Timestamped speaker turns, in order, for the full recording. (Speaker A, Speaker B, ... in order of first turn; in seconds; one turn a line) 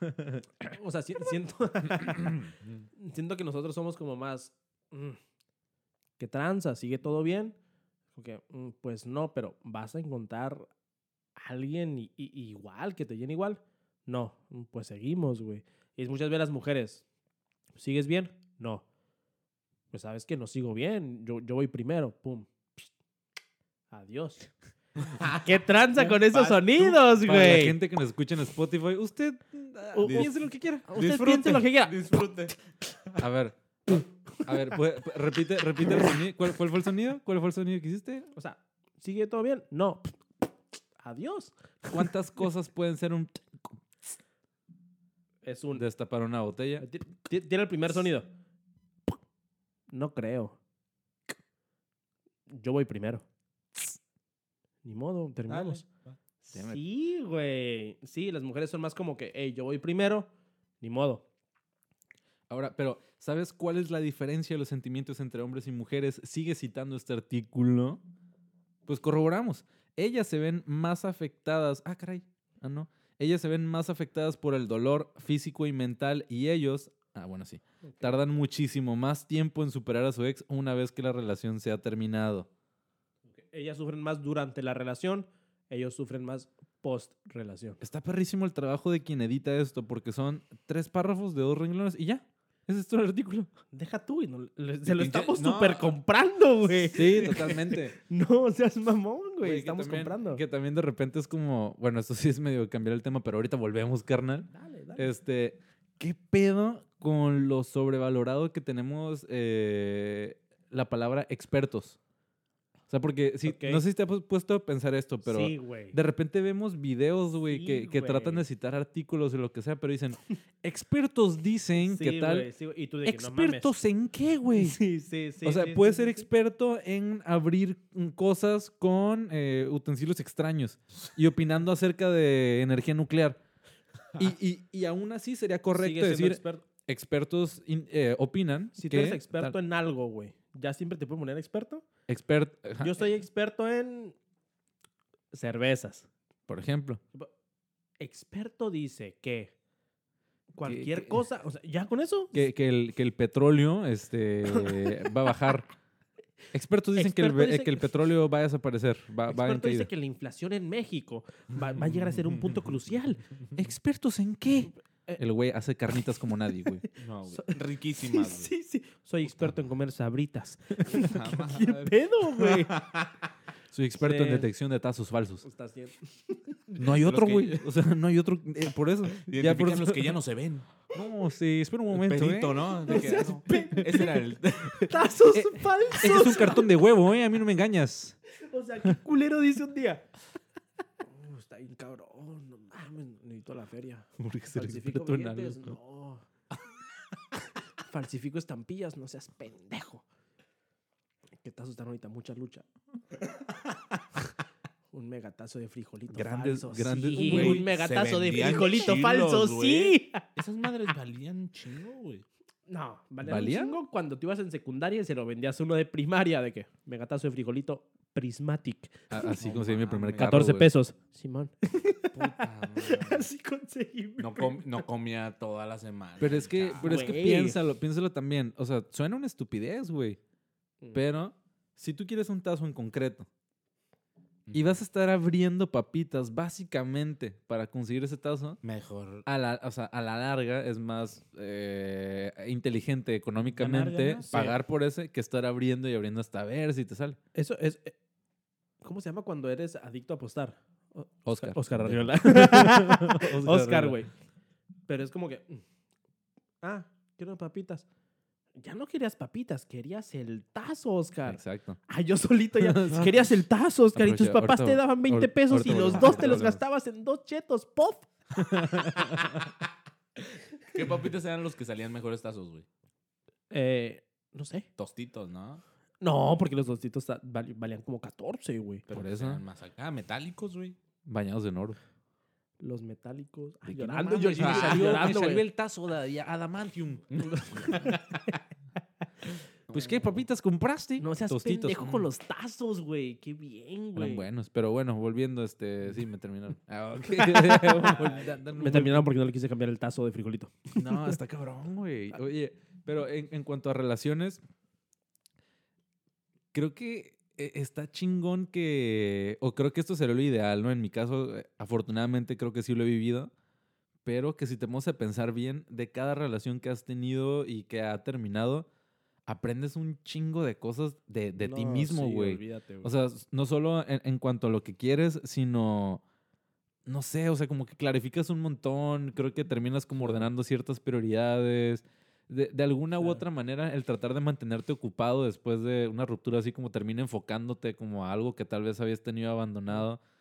Speaker A: 0.6-5.2
Speaker B: 2.4-2.9
Speaker A: 6.2-7.6
Speaker A: 8.2-10.7
Speaker A: 11.4-17.0
Speaker A: 17.8-18.9
Speaker A: 19.9-22.9
Speaker A: 23.9-24.5
Speaker B: 25.0-25.5
Speaker A: 25.1-27.8
Speaker B: 26.0-26.9
Speaker C: 26.8-30.9
Speaker A: 29.9-31.9
Speaker B: 30.9-33.3
Speaker C: 33.2-38.3
Speaker A: 38.3-40.1
Speaker A: 41.0-42.1
Speaker C: 41.9-43.7
Speaker A: 45.4-45.8
Speaker C: 45.8-46.9
Speaker A: 46.8-48.3
Speaker A: 49.9-50.6
Speaker A: 52.5-53.2
Speaker A: 54.8-55.8
Speaker B: 55.5-56.2
Speaker A: 56.4-60.3
Speaker C: 56.5-56.8
Speaker A: 60.8-61.2
Speaker C: 62.5-68.0
Speaker C: 68.9-82.5
Speaker A: 77.8-78.2
Speaker A: 83.4-87.8
Speaker C: 87.8-93.5
Speaker A: 93.7-100.4
Speaker B: 94.9-96.0
Speaker C: 96.9-98.0
Speaker C: 99.4-112.0
Speaker A: 104.5-105.1
Speaker C: 112.9-122.5
Speaker A: 113.5-113.8
Speaker A: 115.2-116.0
Speaker A: 117.5-118.5
Speaker A: 121.7-123.7
Speaker C: 123.0-124.8
Speaker A: 124.5-126.3
Speaker C: 125.4-133.4
Speaker C: 134.2-139.6
Speaker A: 135.8-136.7
Speaker A: 138.8-141.8
Speaker C: 142.1-143.1
Speaker A: 142.8-144.2
Speaker A: 145.3-146.1
Speaker C: 146.5-147.0
Speaker A: 148.0-149.5
Speaker A: 150.5-152.4
Speaker C: 150.6-151.2
Speaker C: 152.3-155.7
Speaker A: 154.5-155.1
Speaker C: 156.5-159.9
Speaker A: 156.9-157.9
Speaker A: 159.3-163.2
Speaker B: 161.9-162.5
Speaker C: 163.6-166.8
Speaker A: 164.7-165.2
Speaker A: 166.8-172.8
Speaker B: 167.0-168.5
Speaker B: 170.9-173.2
Speaker C: 173.7-175.4
Speaker A: 174.0-174.5
Speaker A: 175.4-176.8
Speaker C: 176.8-180.2
Speaker B: 176.8-177.7
Speaker B: 179.3-180.7
Speaker C: 180.9-183.6
Speaker B: 181.9-184.9
Speaker A: 182.9-184.2
Speaker A: 184.8-186.7
Speaker C: 185.3-188.2
Speaker A: 188.3-190.1
Speaker A: 191.1-196.2
Speaker C: 194.2-195.8
Speaker A: 197.8-200.1
Speaker A: 201.4-202.7
Speaker A: 204.9-210.2
Speaker C: 206.1-207.7
Speaker B: 207.2-212.2
Speaker A: 212.7-219.3
Speaker C: 213.2-213.8
Speaker C: 219.1-220.7
Speaker B: 219.2-220.4
Speaker A: 220.2-224.8
Speaker B: 222.1-223.3
Speaker B: 224.2-227.1
Speaker C: 226.2-230.2
Speaker A: 226.8-227.6
Speaker C: 230.9-233.3
Speaker B: 234.5-234.8
Speaker C: 234.5-238.6
Speaker B: 238.6-239.3
Speaker C: 239.3-247.2
Speaker A: 243.6-244.5
Speaker A: 247.3-247.9
Speaker A: 248.8-254.1
Speaker C: 251.3-254.0
Speaker A: 254.9-255.6
Speaker A: 256.6-257.9
Speaker A: 258.6-268.1
Speaker C: 261.3-261.8
Speaker C: 262.6-263.3
Speaker C: 263.9-266.6
Speaker B: 265.9-266.2
Speaker C: 268.4-269.5
Speaker B: 270.6-272.7
Speaker A: 273.5-274.7
Speaker B: 274.8-275.6
Speaker A: 276.0-278.9
Speaker B: 278.9-280.8
Speaker C: 278.9-279.4
Speaker C: 281.1-281.8
Speaker A: 282.6-285.4
Speaker C: 283.7-287.8
Speaker B: 284.2-285.1
Speaker B: 287.1-288.2
Speaker A: 287.7-288.0
Speaker B: 289.7-290.1
Speaker C: 289.7-292.1
Speaker A: 291.0-294.3
Speaker C: 293.9-299.1
Speaker A: 297.1-301.2
Speaker C: 300.8-304.4
Speaker C: 306.5-313.3
Speaker C: 314.1-318.7
Speaker C: 319.3-326.0
Speaker A: 321.4-322.9
Speaker C: 326.9-340.0
Speaker A: 330.0-330.3
Speaker A: 333.0-333.2